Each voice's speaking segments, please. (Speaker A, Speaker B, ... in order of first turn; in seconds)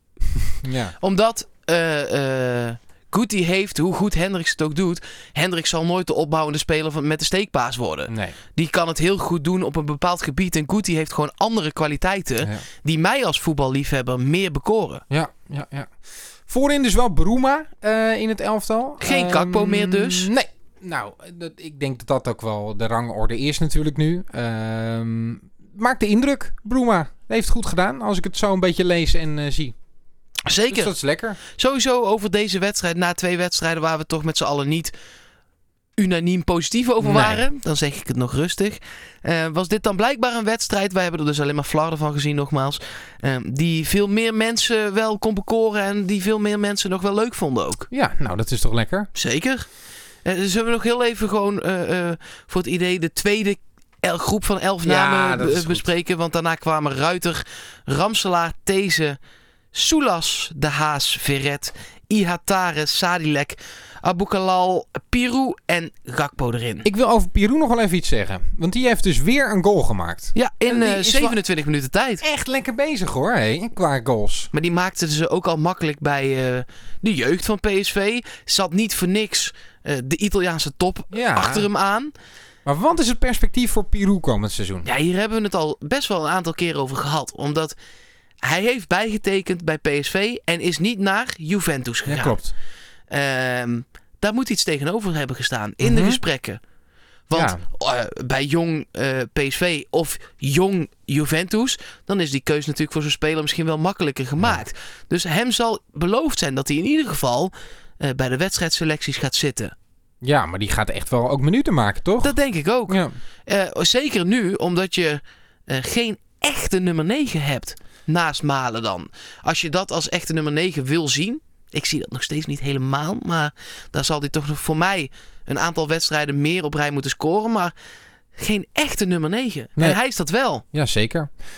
Speaker A: 0.6-0.9, 8.1-8.4, 15.1-15.9, 16.5-29.8, 30.7-31.4, 37.0-37.4, 47.9-49.1, 54.8-55.9, 66.8-71.4, 72.2-74.5, 81.1-81.7, 82.6-84.9, 92.1-92.5, 95.8-96.2, 97.3-97.6, 110.2-112.3, 112.9-113.1, 130.7-131.3
Speaker B: 1.0-15.0, 19.0-20.3, 30.4-30.9, 31.5-34.9, 36.0-47.9, 49.1-49.7, 50.2-59.2, 59.7-66.8, 70.3-72.2, 74.5-82.1, 84.8-87.8, 88.4-92.4, 93.1-96.6, 97.3-109.7, 112.2-127.7, 128.3-130.6